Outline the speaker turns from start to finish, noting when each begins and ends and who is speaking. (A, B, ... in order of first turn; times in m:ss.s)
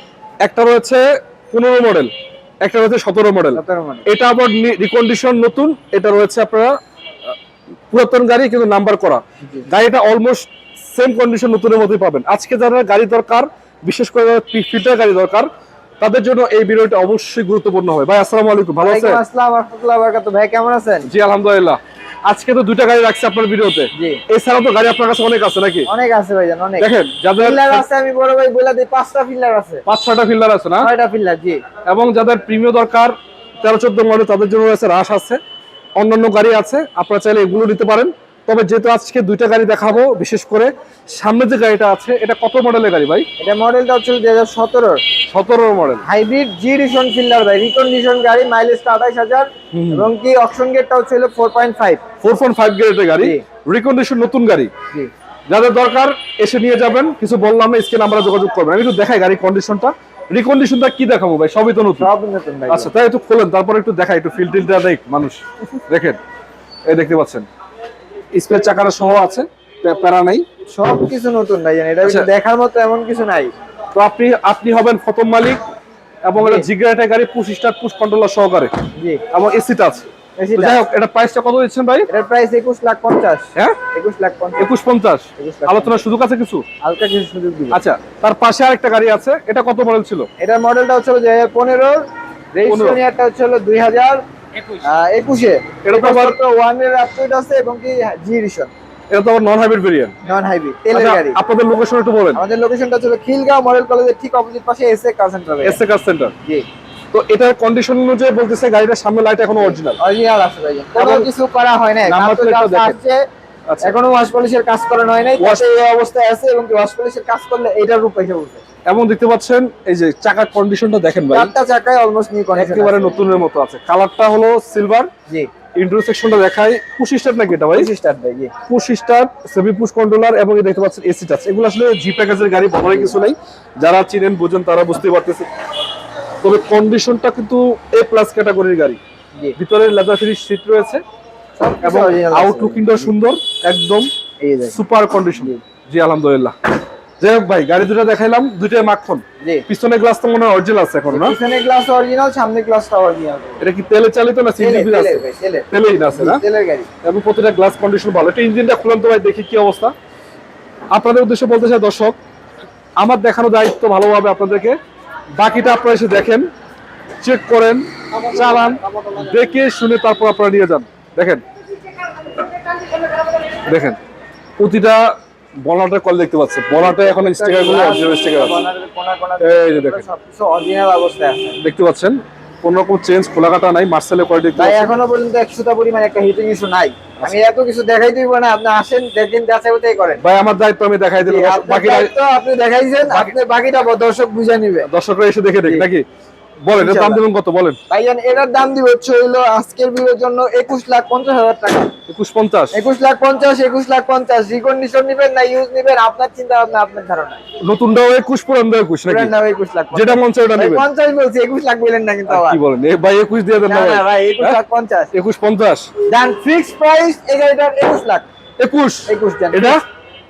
0:00.4-0:02.1 A
0:02.6-0:06.8 A
0:03.5-0:04.0 B
0:07.9-0:15.5 A
0:16.0-0:19.2 A
0:18.8-0:21.1 B
0:21.0-0:25.9 A
0:24.0-0:24.2 B
0:25.9-0:29.8 B
0:26.8-0:27.8 A
0:29.9-0:30.9 A
0:30.8-0:31.6 B
0:31.8-0:35.4 A
0:36.0-0:43.2 A
0:43.4-0:45.0 B
0:45.3-0:46.0 A
0:46.0-0:52.0 B
0:49.7-0:50.1 A
0:52.2-0:54.7 A
0:55.5-1:02.1 A
1:02.0-1:02.9 B
1:02.7-1:06.2 A
1:06.9-1:07.4 A
1:08.3-1:10.4 A
1:10.7-1:13.5 B
1:13.9-1:15.6 A
1:16.2-1:18.7 A
1:16.4-1:16.6 B
1:19.3-1:22.1 A
1:20.4-1:20.8 B
1:22.1-1:24.6 B
1:24.6-1:26.6 A
1:25.4-1:26.0 B
1:26.8-1:27.8 B
1:27.7-1:30.3 A
1:30.4-1:32.0 B
1:32.5-1:34.2 B
1:32.6-1:33.0 A
1:34.8-1:38.7 B
1:35.8-1:36.4 A
1:39.1-1:40.1 A
1:40.2-1:41.4 B
1:40.9-1:42.4 A
1:42.3-1:45.8 B
1:45.6-1:46.3 A
1:47.1-1:50.0 A
1:49.6-1:53.2 B
1:50.9-1:51.3 A
1:52.0-1:53.0 A
1:53.7-1:53.9 A
1:53.8-1:58.6 B
1:55.4-1:55.7 A
1:58.9-2:01.5 A
2:01.3-2:03.2 B
2:02.5-2:05.1 A
2:05.8-2:07.9 A
2:07.7-2:08.5 B
2:08.7-2:15.5 A
2:16.4-2:19.0 A
2:19.6-2:21.0 A
2:21.6-2:23.1 B
2:21.8-2:24.1 A
2:24.4-2:24.8 B
2:24.7-2:26.5 A
2:27.2-2:31.4 A
2:31.1-2:33.6 B
2:33.6-2:36.4 A
2:34.6-2:36.9 B
2:37.0-2:39.9 A
2:40.9-2:42.2 A
2:43.0-2:44.8 A
2:45.4-2:46.5 A
2:47.2-2:51.4 A
2:53.6-2:54.0 A
2:54.6-2:55.1 A
2:55.6-2:58.6 A
2:56.8-3:01.6 B
2:59.4-3:00.0 A
3:01.6-3:04.9 A
3:04.6-3:10.2 B
3:10.2-3:12.1 A
3:11.2-3:14.9 B
3:13.0-3:13.4 A
3:14.9-3:16.0 A
3:16.6-3:17.8 A
3:16.7-3:17.2 B
3:17.9-3:21.9 B
3:22.1-3:22.8 A
3:22.7-3:27.4 B
3:27.6-3:29.3 A
3:29.1-3:32.6 B
3:29.9-3:30.8 A
3:32.3-3:34.6 A
3:33.7-3:35.1 B
3:35.1-3:35.9 A
3:36.1-3:38.3 B
3:38.6-3:39.8 A
3:39.1-3:39.8 B